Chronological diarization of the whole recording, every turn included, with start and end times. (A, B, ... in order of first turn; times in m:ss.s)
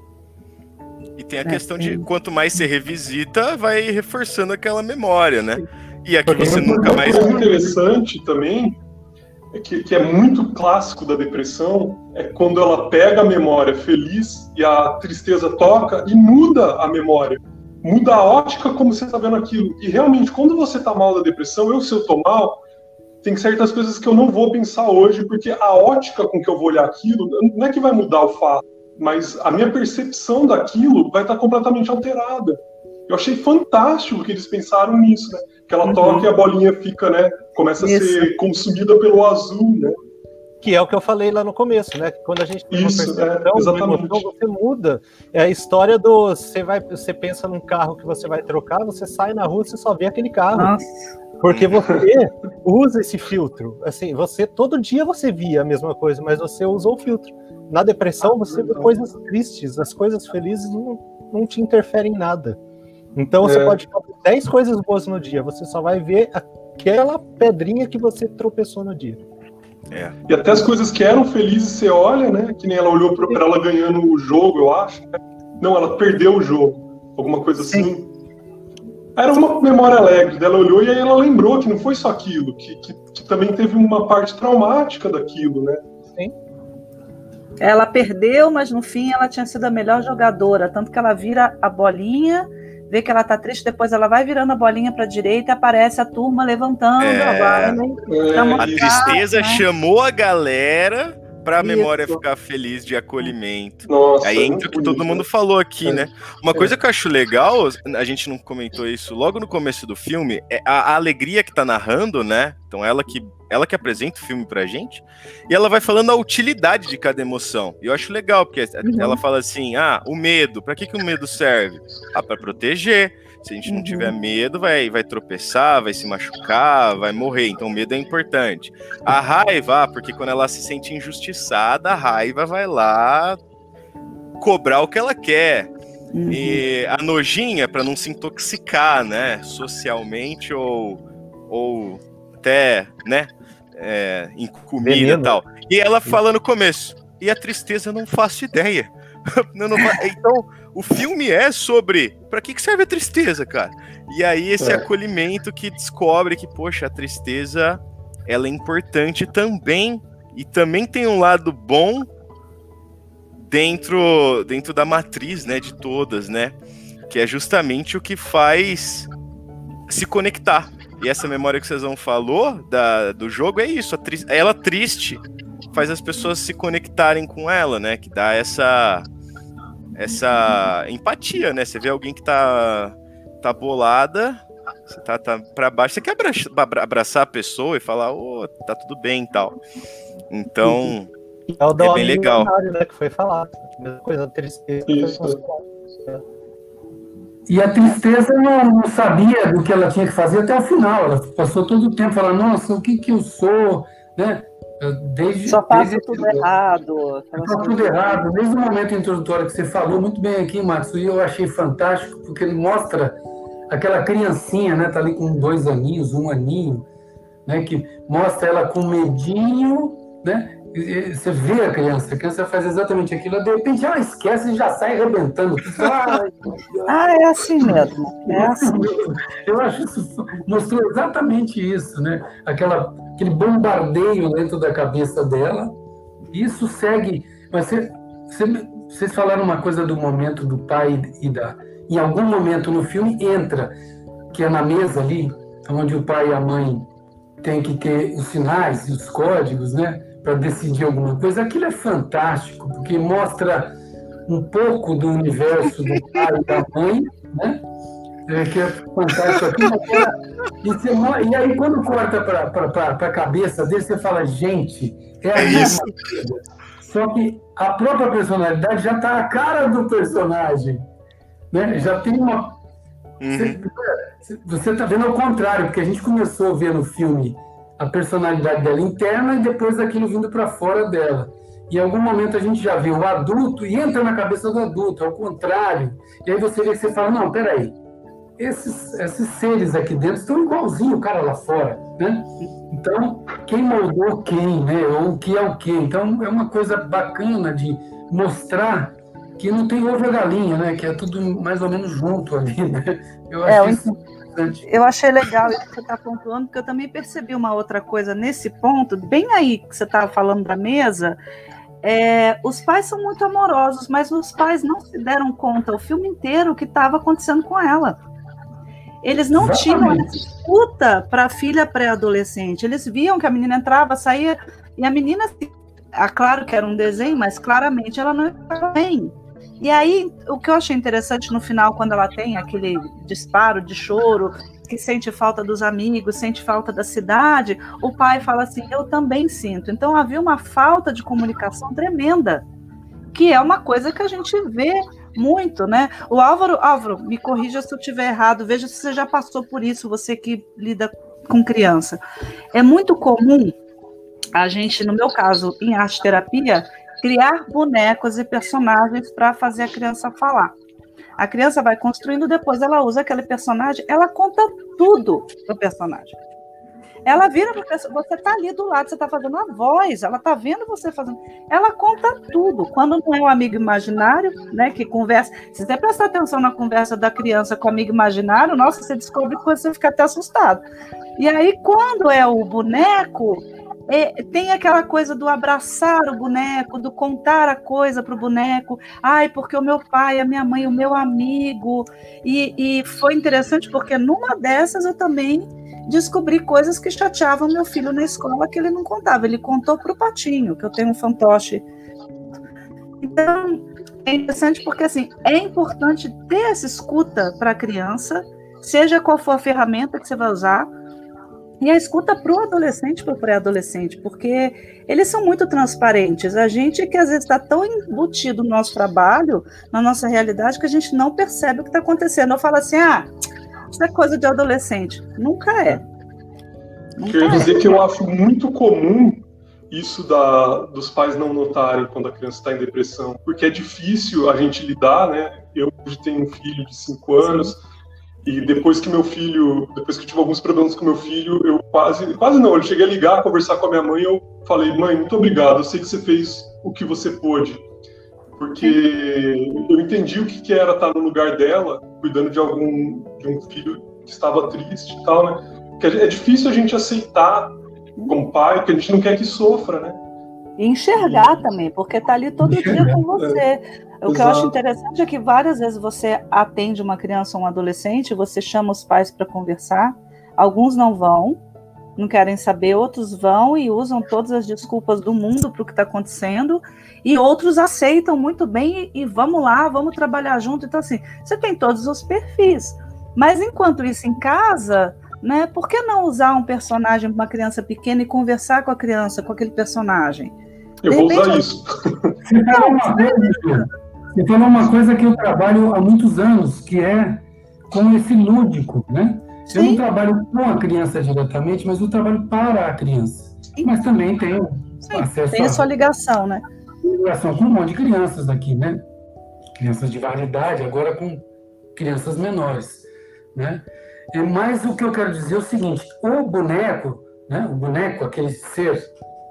0:01.2-0:07.5 A
0:01.4-0:02.1 B
0:06.3-0:07.0 C
0:06.3-0:08.8 D
0:09.5-0:22.6 D
0:23.2-0:40.0 D
0:35.8-0:36.3 B
0:37.8-0:38.3 B
0:40.6-0:50.7 C
0:42.7-0:44.2 D
0:50.5-0:50.9 B
0:51.4-1:02.6 C
0:51.5-0:51.8 A
0:58.3-0:58.9 D
1:03.1-1:09.2 C
1:03.4-1:03.8 D
1:09.9-1:10.2 A
1:10.3-1:18.1 D
1:19.2-1:25.8 D
1:27.6-1:39.6 B
1:37.0-1:37.8 A
1:38.0-1:39.2 D
1:38.6-2:13.4 A
1:41.6-1:41.9 B
1:43.8-1:45.2 D
1:58.8-1:59.2 B
2:03.7-2:04.1 B
2:14.4-2:15.7 A
2:16.1-2:16.6 B
2:16.3-2:42.1 A
2:24.8-2:25.4 C
2:34.6-2:34.8 D
2:43.5-2:46.5 A
2:47.1-2:49.1 A
2:49.9-2:59.0 A
2:59.9-3:09.6 A
3:10.3-3:11.1 A
3:10.6-3:10.9 C
3:11.5-3:16.2 C
3:11.8-3:12.5 A
3:14.9-3:15.4 D
3:17.5-3:26.4 E
3:25.5-3:28.2 B
3:27.4-3:33.2 E
3:33.7-3:36.8 E
3:37.4-3:55.7 E
3:46.9-3:48.9 B
3:56.3-4:03.7 E
4:04.3-4:06.9 E
4:07.4-4:13.8 E
4:14.3-4:17.6 E
4:18.3-4:30.8 E
4:25.4-4:25.9 A
4:31.5-4:32.6 E
4:33.2-4:33.6 A
4:33.3-4:47.7 E
4:48.4-5:04.6 E
5:03.4-5:03.8 B
5:04.6-5:11.2 B
5:11.8-5:18.0 B
5:19.0-5:42.4 B
5:19.3-5:20.2 E
5:43.1-5:52.0 B
5:52.5-5:53.5 B
5:54.3-6:00.5 B
6:01.2-6:06.2 B
6:07.0-6:20.6 B
6:21.2-6:41.6 B
6:43.0-6:50.7 B
6:51.6-7:03.1 B
7:03.7-7:05.8 B
7:07.0-7:07.8 B
7:07.0-7:17.6 D
7:18.2-7:27.6 D
7:28.4-7:37.6 D
7:38.1-7:40.0 D
7:40.6-7:51.4 B
7:40.9-7:41.4 D
7:42.4-7:43.0 E
7:43.1-7:43.4 D
7:44.1-7:44.5 D
7:52.0-8:10.3 B
8:10.8-8:12.1 D
8:10.9-8:11.4 B
8:12.2-8:25.6 E
8:12.5-8:13.6 B
8:19.5-8:19.8 B
8:24.8-8:26.4 B
8:26.8-8:28.8 E
8:29.6-8:38.9 E